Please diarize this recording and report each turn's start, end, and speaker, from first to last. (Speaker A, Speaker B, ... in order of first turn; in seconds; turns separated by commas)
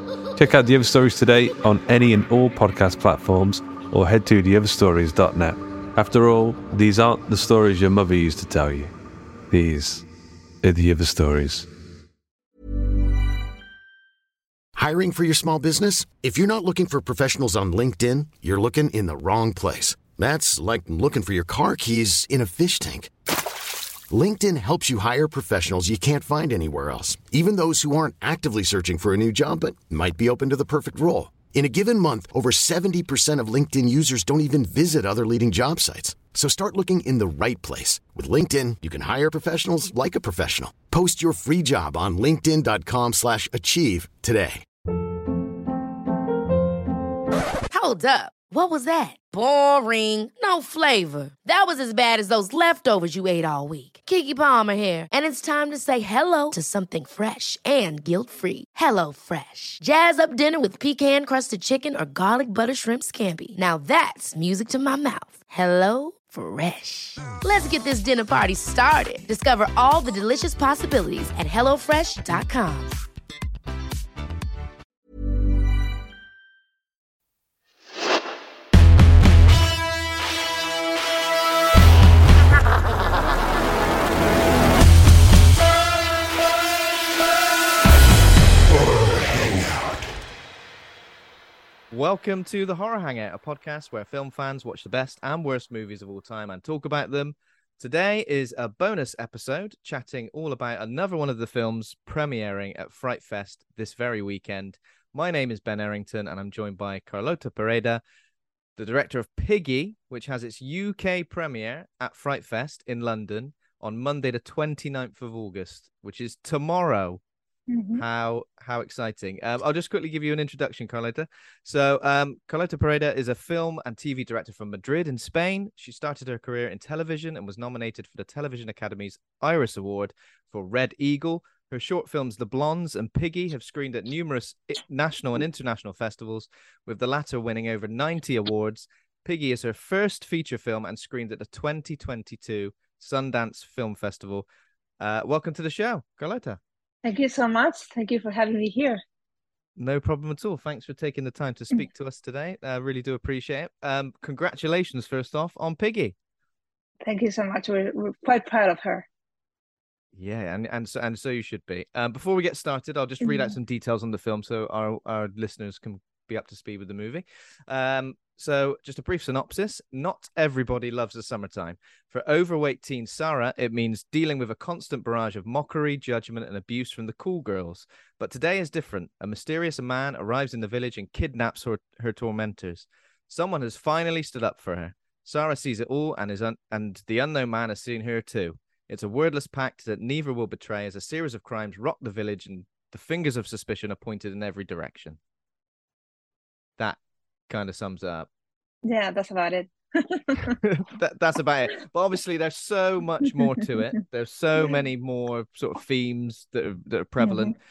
Speaker A: 0.3-8.9, Speaker A: 9.5-10.1, Speaker A: 10.6-11.7, Speaker B: 14.7-23.1, Speaker B: 24.1-44.6, Speaker C: 47.7-72.9, Speaker D: 91.9-108.0, Speaker D: 108.8-117.2, Speaker E: 117.7-118.0, Speaker D: 118.0-144.4, Speaker D: 145.0-146.6, Speaker E: 147.0-149.0, Speaker D: 149.8-156.1, Speaker E: 157.0-159.1, Speaker D: 160.1-195.2, Speaker E: 163.2-163.5, Speaker D: 196.8-198.3, Speaker E: 198.8-200.6, Speaker D: 200.6-207.6, Speaker E: 207.2-207.5